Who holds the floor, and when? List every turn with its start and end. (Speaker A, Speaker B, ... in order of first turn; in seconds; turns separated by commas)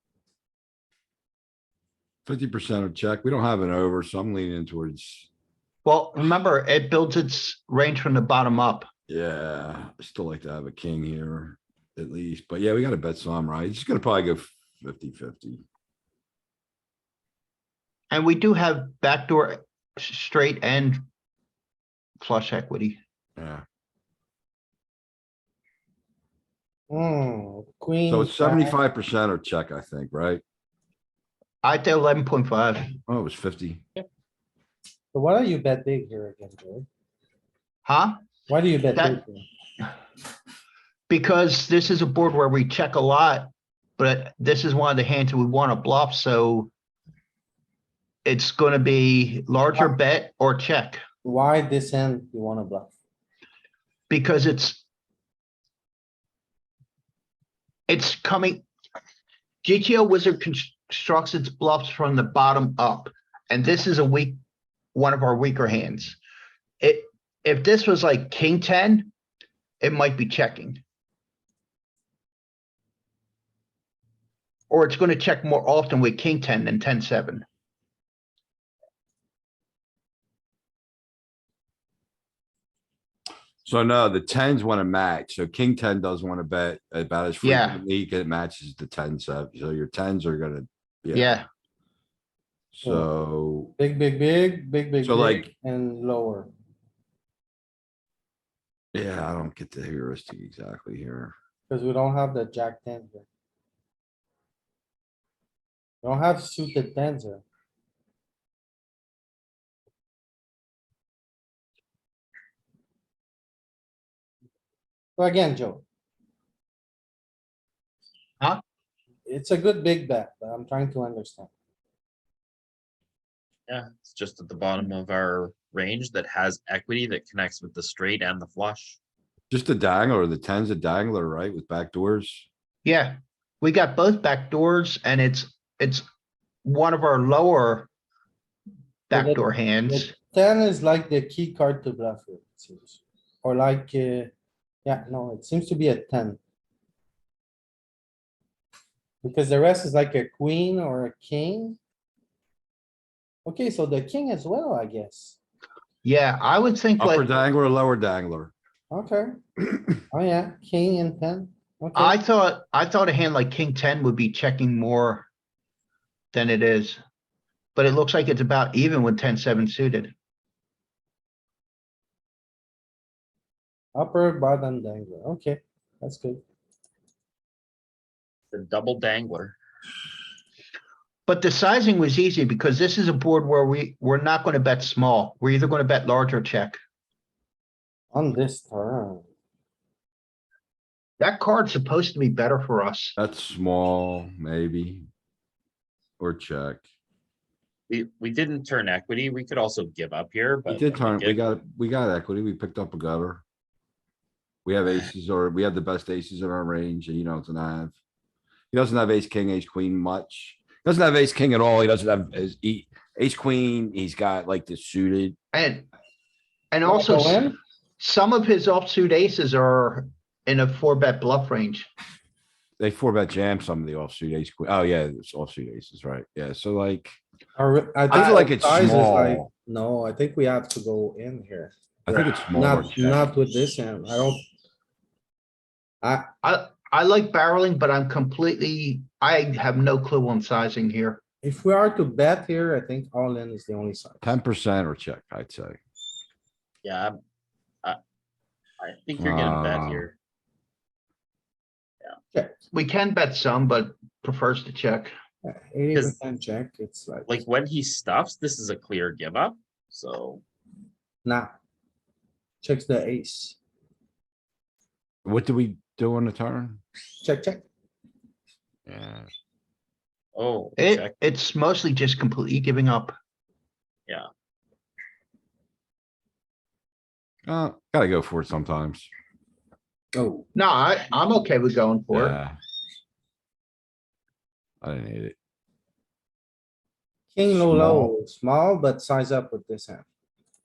Speaker A: 2.2-5.3, Speaker B: 5.8-8.9, Speaker A: 9.1-15.6, Speaker B: 18.1-21.0, Speaker B: 22.2-23.0, Speaker A: 23.4-23.6, Speaker C: 26.9-28.8, Speaker A: 28.1-30.4, Speaker B: 31.6-32.9, Speaker A: 33.1-33.8, Speaker C: 35.1-36.9, Speaker B: 37.9-38.1, Speaker C: 38.5-39.4, Speaker B: 41.1-46.7, Speaker B: 48.2-51.0, Speaker C: 51.2-52.9, Speaker B: 54.1-54.8, Speaker B: 57.9-58.6, Speaker B: 59.6-64.4, Speaker B: 64.9-66.2, Speaker B: 66.8-69.1, Speaker B: 69.8-70.8, Speaker B: 74.7-77.4, Speaker A: 83.6-91.2, Speaker B: 87.4-87.8, Speaker B: 91.1-91.5, Speaker A: 92.7-93.7, Speaker C: 93.8-96.5, Speaker A: 95.0-95.5, Speaker A: 98.9-101.3, Speaker C: 101.7-103.2, Speaker C: 106.0-107.4, Speaker C: 115.2-115.8, Speaker C: 119.3-121.5, Speaker D: 123.7-129.0, Speaker A: 129.5-132.4, Speaker B: 132.8-136.0, Speaker B: 136.6-137.9, Speaker B: 139.1-140.1, Speaker C: 139.1-144.3, Speaker C: 144.8-146.4, Speaker C: 149.2-151.8, Speaker C: 153.4-155.4, Speaker B: 156.0-157.3, Speaker A: 157.0-158.5, Speaker C: 158.9-159.3, Speaker C: 160.0-162.2, Speaker B: 161.9-165.3, Speaker B: 166.3-167.0, Speaker B: 167.8-170.1, Speaker C: 173.9-176.4, Speaker D: 178.5-179.6, Speaker B: 181.2-186.8, Speaker C: 188.1-189.2, Speaker B: 191.2-193.1, Speaker A: 193.2-195.1, Speaker A: 196.2-196.8, Speaker D: 197.9-201.5, Speaker A: 200.7-203.4, Speaker A: 204.6-207.9, Speaker A: 208.7-215.3, Speaker B: 215.5-215.9, Speaker B: 216.7-217.5, Speaker C: 216.8-217.5, Speaker B: 218.0-221.9, Speaker A: 222.8-227.2, Speaker C: 227.6-234.4, Speaker A: 228.1-229.5, Speaker A: 232.1-233.2, Speaker C: 236.0-236.3, Speaker B: 236.4-241.2, Speaker C: 241.4-244.3, Speaker A: 244.2-245.8, Speaker D: 246.8-247.2, Speaker D: 248.8-250.1, Speaker A: 249.2-250.1, Speaker C: 252.3-252.6, Speaker B: 252.7-255.1, Speaker C: 255.4-257.3, Speaker D: 257.3-260.4, Speaker C: 261.2-261.5, Speaker C: 262.6-263.6, Speaker A: 265.2-266.8, Speaker C: 267.2-267.6, Speaker A: 268.9-269.3, Speaker D: 270.3-271.1, Speaker B: 270.8-273.1, Speaker A: 277.5-279.1, Speaker C: 280.1-280.5, Speaker B: 280.5-282.4, Speaker A: 282.1-282.6, Speaker A: 284.8-285.3, Speaker C: 287.3-290.0, Speaker A: 287.5-288.1